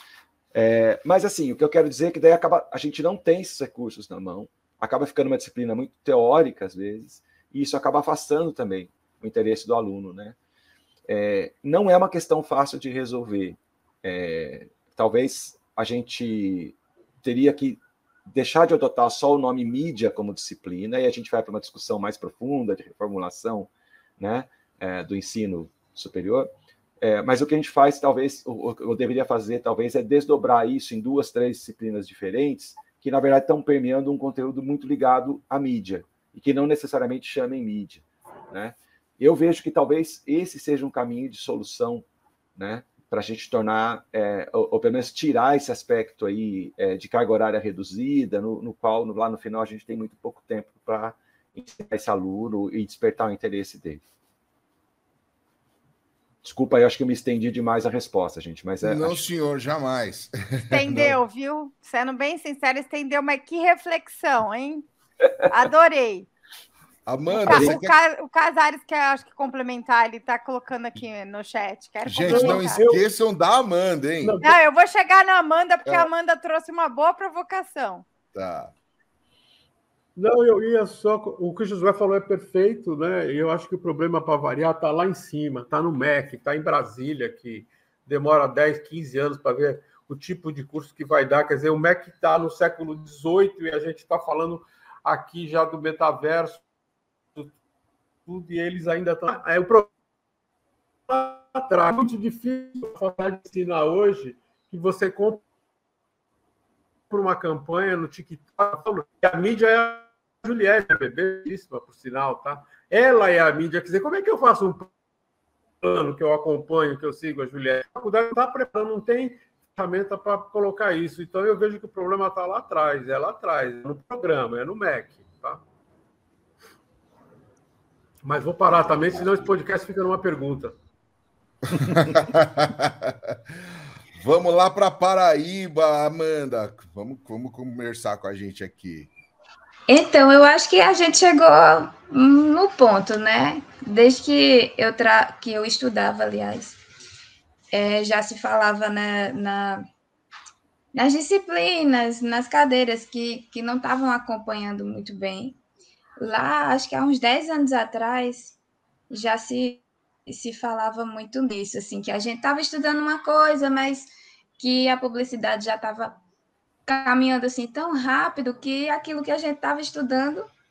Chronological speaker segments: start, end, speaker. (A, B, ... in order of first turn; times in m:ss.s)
0:00.5-0:10.4 A
0:11.1-0:42.0 A
0:42.6-0:54.0 A
0:56.4-0:59.2 A
0:58.8-1:01.2 B
1:00.7-1:04.9 C
1:05.5-1:06.3 C
1:07.1-1:07.9 B
1:07.3-1:12.8 C
1:07.5-1:07.8 A
1:12.0-1:14.4 B
1:12.3-1:13.0 D
1:14.2-1:14.6 D
1:14.4-1:18.0 C
1:18.3-1:18.7 B
1:20.2-1:36.6 D
1:38.3-1:39.9 D
1:41.1-1:45.4 D
1:47.1-1:54.9 D
1:55.8-2:05.6 D
2:08.2-2:10.8 D
2:11.7-2:13.6 B
2:14.2-2:19.1 B
2:19.9-2:26.8 E
2:27.7-2:29.8 E
2:30.9-2:35.6 E
2:36.2-2:38.6 E
2:39.1-2:46.2 E
2:46.9-2:50.5 E